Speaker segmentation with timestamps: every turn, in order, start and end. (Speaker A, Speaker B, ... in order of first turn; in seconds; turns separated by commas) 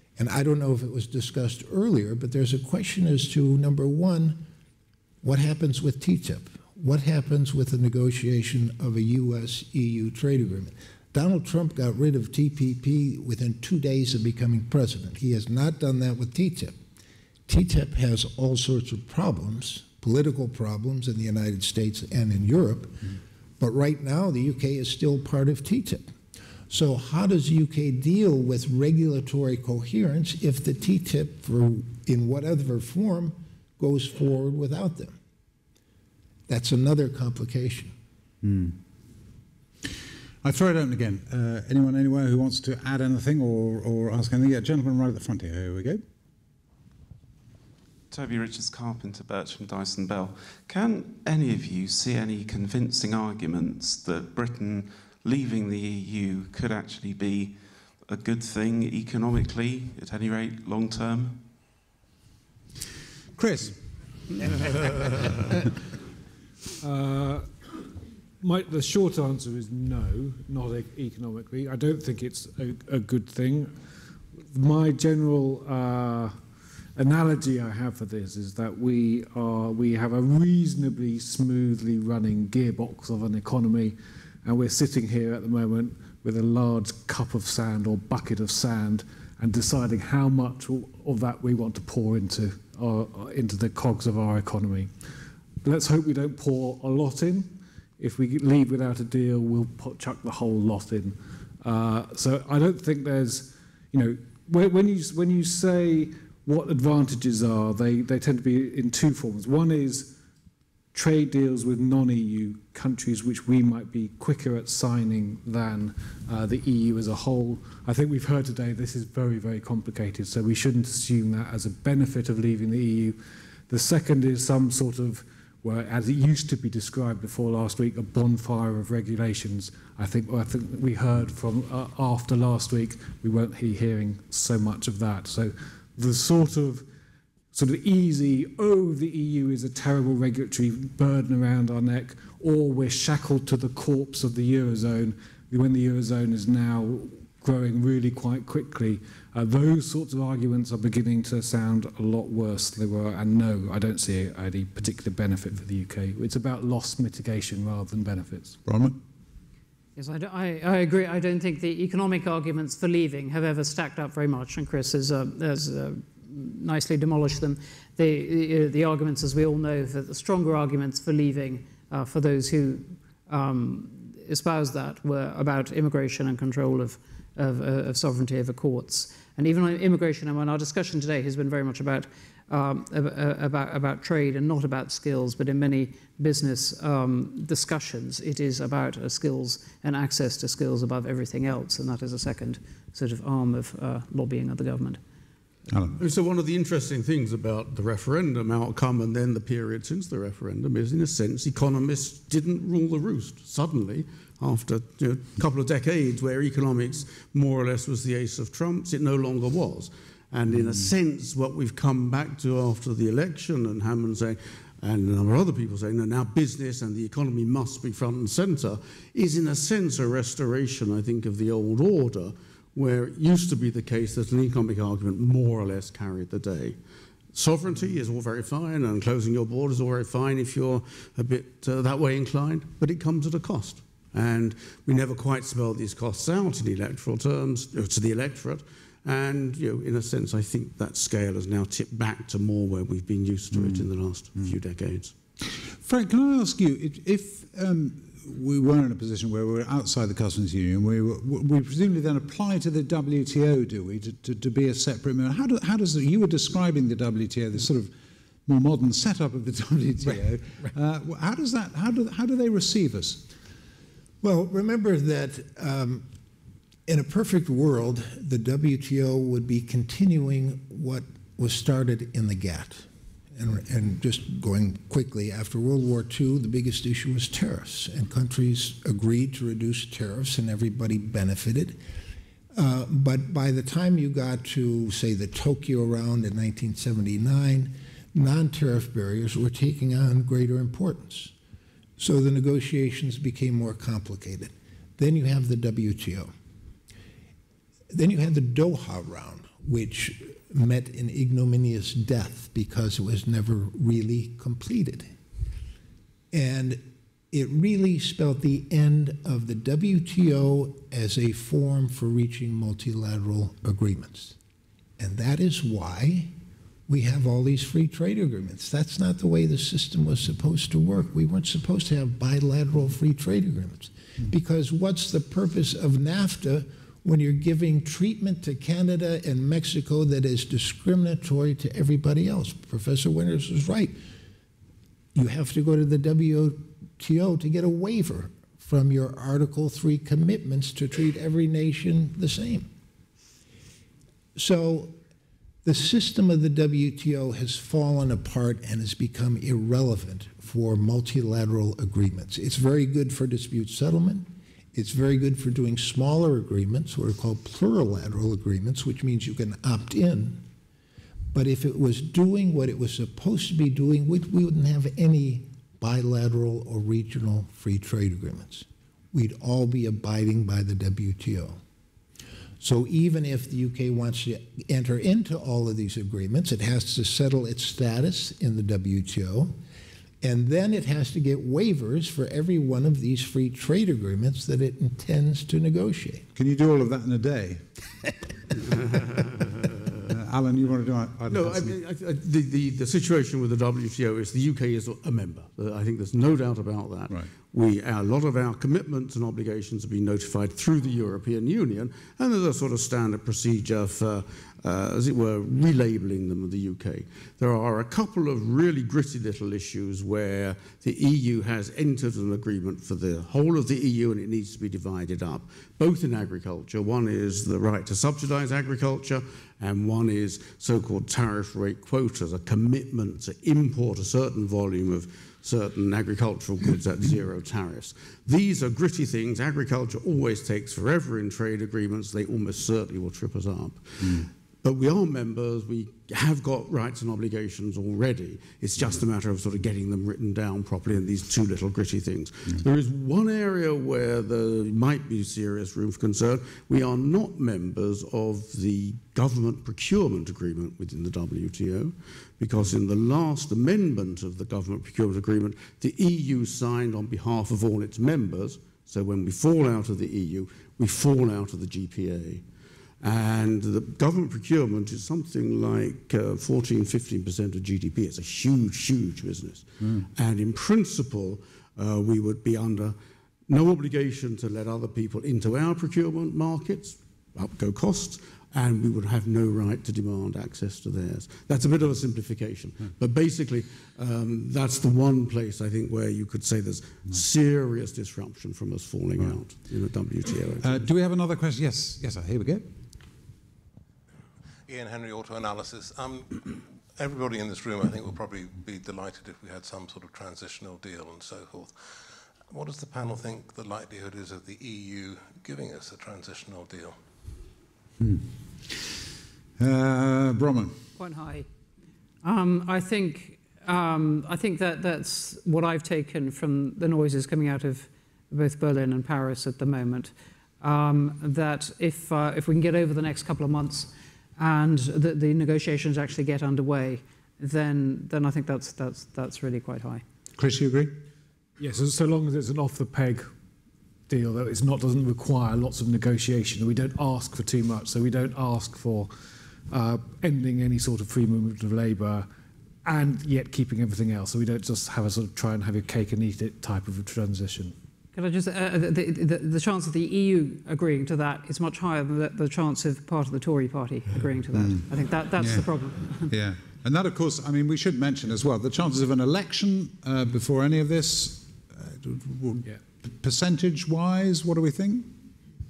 Speaker A: 0.2-4.5, Speaker A: 5.2-16.8, Speaker A: 17.5-26.1, Speaker A: 26.7-35.1, Speaker A: 36.5-37.9, Speaker B: 38.4-38.8, Speaker B: 40.4-46.0, Speaker C: 48.1-61.5, Speaker B: 63.4-63.8, Speaker D: 66.8-67.5, Speaker D: 68.4-73.7, Speaker D: 74.5-76.3, Speaker D: 77.0-94.9, Speaker D: 95.6-110.1, Speaker D: 110.9-123.2, Speaker D: 123.7-136.8, Speaker D: 137.5-158.6, Speaker B: 158.6-159.0, Speaker E: 159.9-195.0, Speaker B: 195.7-196.0, Speaker F: 196.0-226.8, Speaker F: 227.3-245.1, Speaker B: 243.5-244.5, Speaker B: 245.4-257.9, Speaker B: 258.4-263.2, Speaker A: 264.2-266.1, Speaker A: 266.9-281.8, Speaker A: 282.5-291.3, Speaker A: 292.0-296.3, Speaker A: 297.9-305.1, Speaker A: 306.3-314.4, Speaker A: 315.0-316.3, Speaker A: 316.9-334.0, Speaker A: 335.1-342.7, Speaker A: 344.4-344.9, Speaker A: 345.6-360.4, Speaker A: 361.3-371.6, Speaker A: 372.6-379.5, Speaker A: 380.2-386.2, Speaker B: 386.4-387.7, Speaker F: 388.9-389.6, Speaker B: 390.0-391.8, Speaker F: 391.3-462.4, Speaker B: 434.0-434.3, Speaker F: 463.0-472.9, Speaker F: 473.5-490.9, Speaker B: 490.6-492.7, Speaker G: 494.7-501.7, Speaker G: 502.5-507.0, Speaker B: 508.0-508.8, Speaker B: 509.6-510.8, Speaker E: 511.0-511.5, Speaker E: 512.2-530.0, Speaker B: 530.4-530.9, Speaker D: 531.6-533.3, Speaker D: 534.1-539.1, Speaker D: 539.7-542.3, Speaker D: 542.8-547.7, Speaker E: 548.1-556.3, Speaker B: 554.5-554.8, Speaker B: 555.4-565.1